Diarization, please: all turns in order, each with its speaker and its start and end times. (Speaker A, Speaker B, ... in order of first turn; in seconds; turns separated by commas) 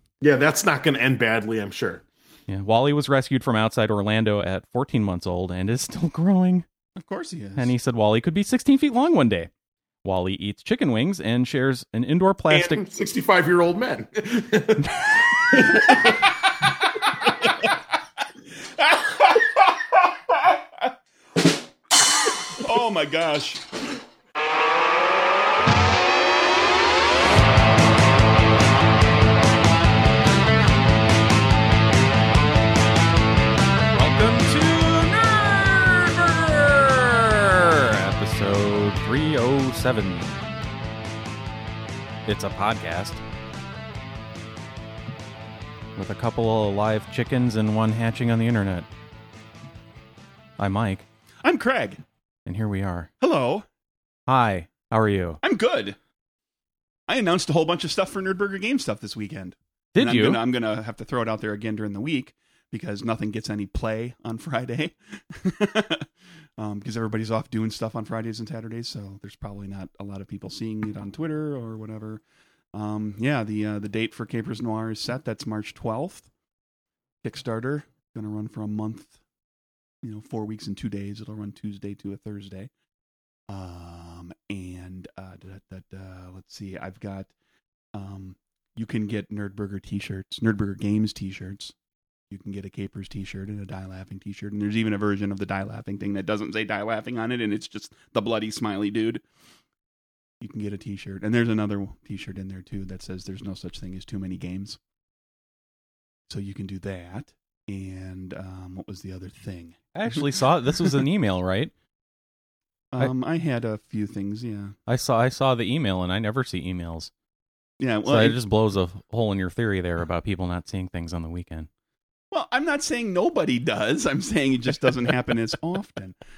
Speaker A: 0.2-2.0, Speaker B: 2.5-6.7, Speaker C: 7.0-7.7, Speaker B: 7.6-9.5, Speaker B: 10.1-12.8, Speaker A: 12.5-16.4, Speaker A: 17.2-17.5, Speaker C: 18.9-19.6, Speaker C: 20.6-20.9, Speaker C: 22.5-23.7, Speaker B: 33.9-40.4, Speaker B: 42.3-43.2, Speaker B: 46.0-48.9, Speaker B: 50.6-51.0, Speaker C: 51.5-52.0, Speaker B: 52.5-53.1, Speaker C: 53.2-53.7, Speaker B: 54.3-55.4, Speaker C: 55.4-56.0, Speaker C: 57.1-72.2, Speaker B: 60.0-60.4, Speaker C: 72.7-76.3, Speaker C: 77.2-79.2, Speaker C: 80.0-82.7, Speaker C: 83.5-87.3, Speaker C: 88.0-91.7, Speaker C: 92.3-99.2, Speaker C: 100.4-104.8, Speaker C: 106.3-110.3, Speaker B: 110.0-111.7, Speaker C: 112.9-114.8, Speaker B: 114.9-117.1, Speaker C: 117.8-118.4, Speaker B: 118.0-121.7, Speaker C: 122.3-126.2